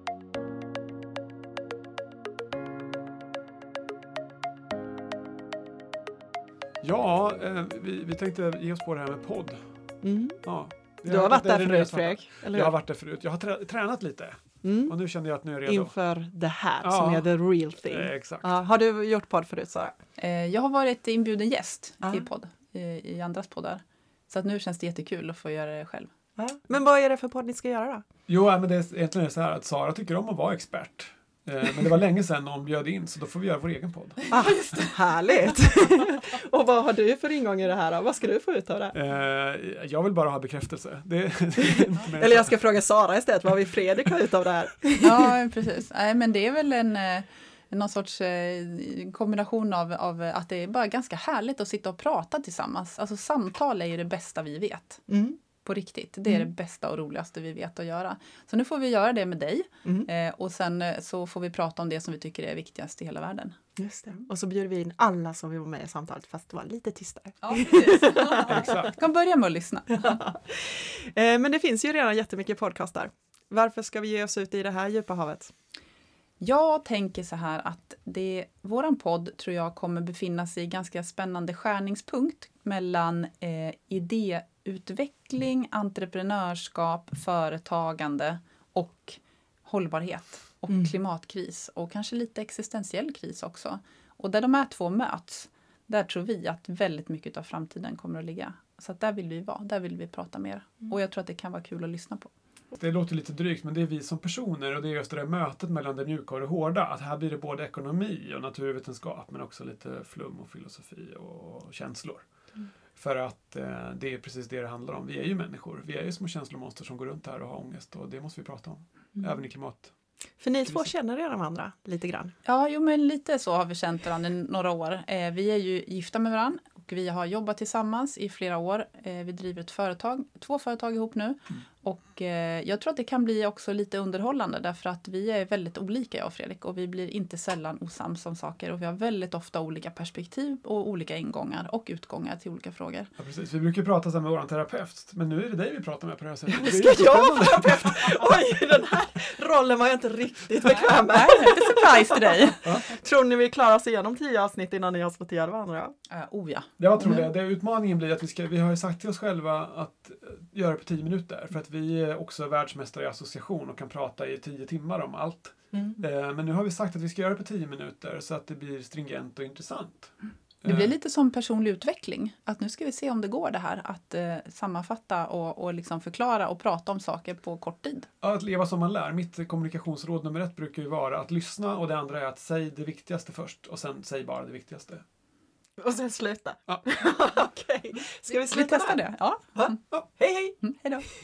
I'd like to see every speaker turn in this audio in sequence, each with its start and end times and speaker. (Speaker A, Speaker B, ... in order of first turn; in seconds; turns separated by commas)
Speaker A: 6.8-9.6, Speaker B: 10.0-10.4, Speaker A: 10.4-15.9, Speaker B: 11.0-12.7, Speaker B: 14.6-14.9, Speaker B: 15.6-19.9, Speaker A: 16.8-18.6, Speaker C: 20.2-26.1, Speaker B: 26.4-28.0, Speaker A: 28.3-34.2, Speaker B: 34.3-39.0, Speaker A: 38.9-42.5, Speaker B: 41.6-45.3, Speaker C: 45.0-55.0, Speaker B: 55.1-55.4, Speaker C: 55.6-63.6, Speaker B: 63.8-68.7, Speaker C: 67.4-70.2, Speaker A: 68.5-68.9, Speaker B: 70.0-75.5, Speaker C: 76.4-102.3, Speaker A: 102.8-112.2, Speaker A: 113.0-119.9, Speaker B: 120.4-122.3, Speaker A: 120.7-120.9, Speaker C: 122.4-143.1, Speaker A: 143.2-148.0, Speaker B: 146.5-155.9, Speaker C: 150.7-152.7, Speaker A: 152.6-152.9, Speaker C: 156.1-156.7, Speaker A: 156.8-170.1, Speaker A: 170.6-170.9, Speaker C: 170.6-178.1, Speaker A: 178.2-185.0, Speaker B: 185.8-190.6, Speaker C: 188.3-189.8, Speaker C: 190.6-191.1